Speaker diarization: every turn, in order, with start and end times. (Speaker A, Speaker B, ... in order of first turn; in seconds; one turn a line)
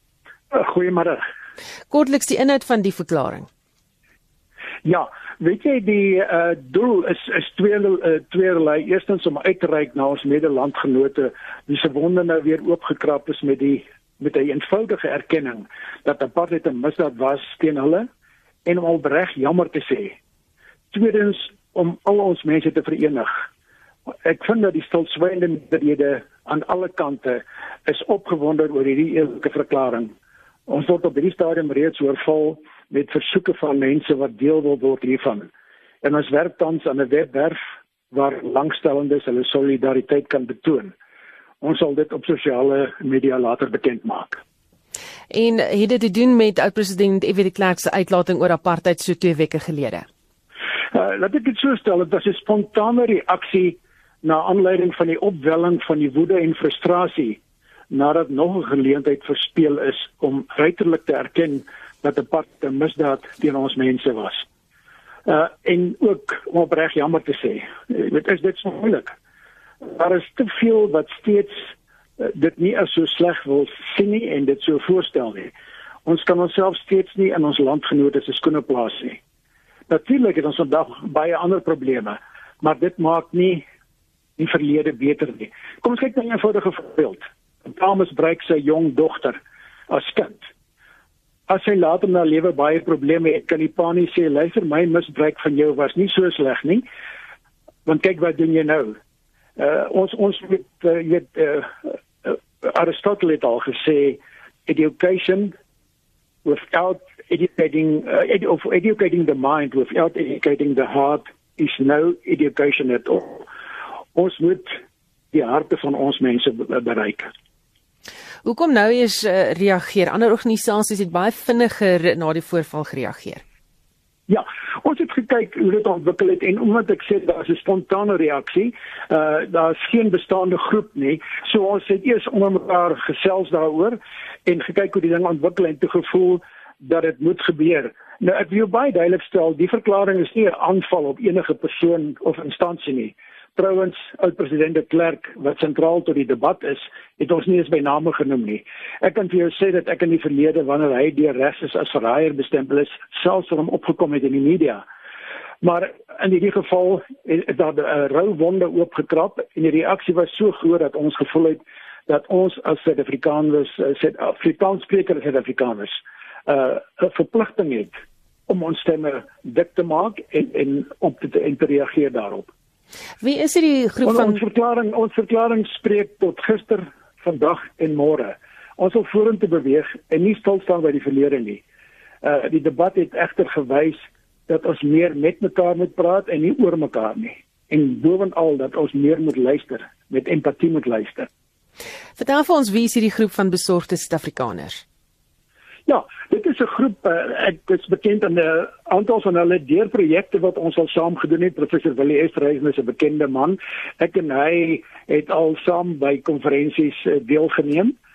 Speaker A: 0.5-1.2
Speaker B: 1.9-3.5
Speaker A: 4.8-18.1
Speaker A: 18.6-20.2
Speaker A: 20.9-23.3
Speaker A: 24.2-30.1
Speaker A: 30.7-35.5
Speaker A: 36.0-37.6
Speaker A: 38.1-40.9
Speaker A: 41.6-44.4
Speaker B: 45.3-50.0
Speaker A: 50.9-57.4
Speaker A: 57.9-64.4
Speaker A: 65.2-69.1
Speaker A: 69.8-75.5
Speaker A: 76.0-79.2
Speaker A: 79.9-83.6
Speaker A: 84.4-89.4
Speaker A: 89.9-90.5
Speaker A: 91.5-96.8
Speaker A: 97.8-99.0
Speaker A: 99.6-105.5
Speaker A: 106.4-113.5
Speaker A: 114.1-114.7
Speaker A: 115.3-117.3
Speaker B: 118.4-123.4
Speaker A: 124.3-154.8
Speaker A: 155.6-167.9
Speaker A: 168.5-172.5
Speaker B: 173.2-174.4
Speaker A: 174.0-181.6
Speaker A: 182.2-191.3
Speaker B: 192.2-194.8
Speaker A: 195.8-207.9